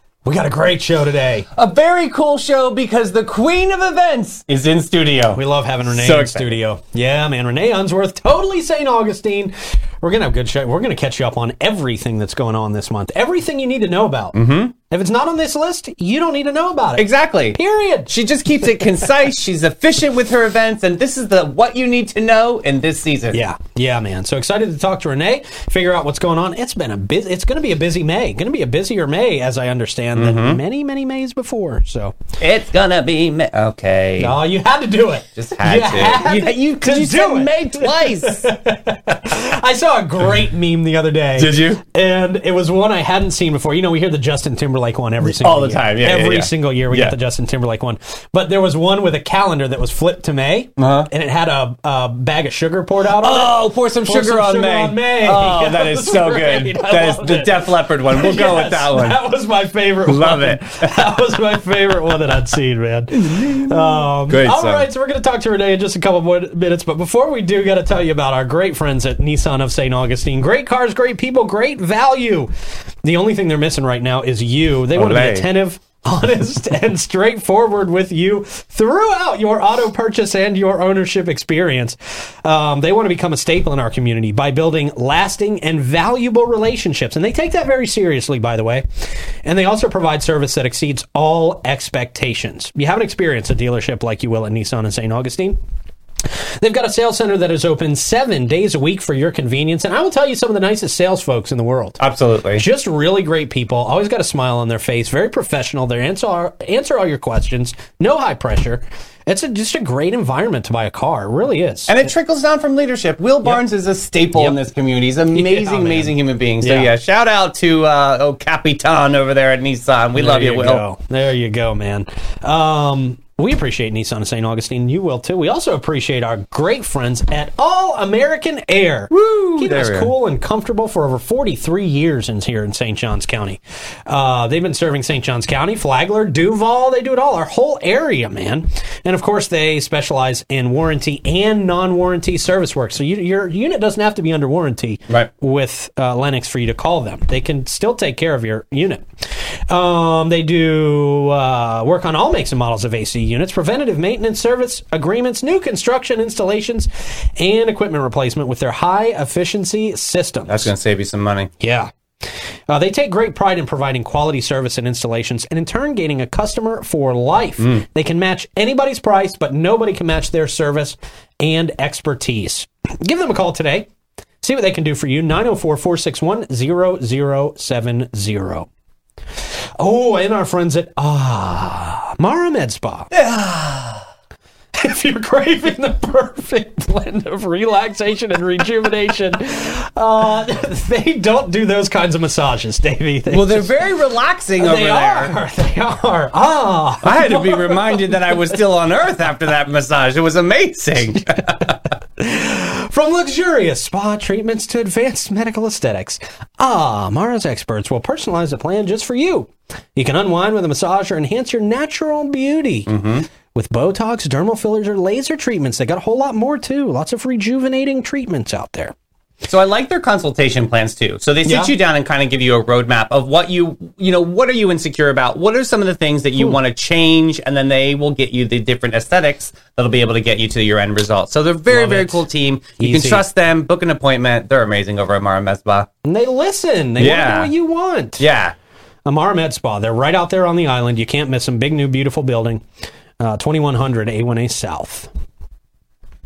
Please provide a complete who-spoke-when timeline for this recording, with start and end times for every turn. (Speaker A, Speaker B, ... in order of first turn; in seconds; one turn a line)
Speaker A: 0.2-1.5
Speaker B: 1.6-6.6
Speaker A: 5.3-14.4
Speaker B: 14.3-14.7
Speaker A: 14.9-19.0
Speaker B: 17.0-23.4
Speaker A: 23.3-32.2
Speaker B: 30.1-30.6
Speaker B: 32.4-34.4
Speaker A: 34.2-72.5
Speaker B: 35.4-38.5
Speaker B: 41.4-41.8
Speaker B: 45.3-47.2
Speaker B: 50.8-51.1
Speaker B: 53.1-59.2
Speaker B: 60.0-61.0
Speaker B: 63.3-64.9
Speaker A: 73.0-88.8
Speaker B: 74.9-75.5
Speaker A: 89.4-95.6
Speaker A: 96.2-102.0
Speaker B: 102.0-102.6
Speaker A: 102.6-112.1
Speaker B: 111.9-120.8
Speaker A: 114.3-114.6
Speaker A: 115.3-116.9
Speaker A: 120.2-160.7
Speaker B: 129.1-130.1
Speaker B: 160.5-161.5
Speaker A: 161.6-173.9
Speaker A: 174.4-178.7
Speaker A: 179.8-183.1
Speaker B: 183.1-184.1
Speaker A: 184.7-193.7
Speaker B: 193.3-195.3
Speaker A: 194.6-198.6
Speaker B: 197.0-201.8
Speaker A: 202.2-212.9
Speaker B: 212.9-213.3
Speaker A: 213.5-218.9
Speaker B: 219.4-235.9
Speaker A: 221.4-221.7
Speaker A: 231.7-232.2
Speaker A: 232.8-233.2
Speaker A: 236.1-238.3
Speaker B: 237.0-237.5
Speaker B: 238.2-238.5
Speaker A: 239.1-242.7
Speaker A: 243.2-245.1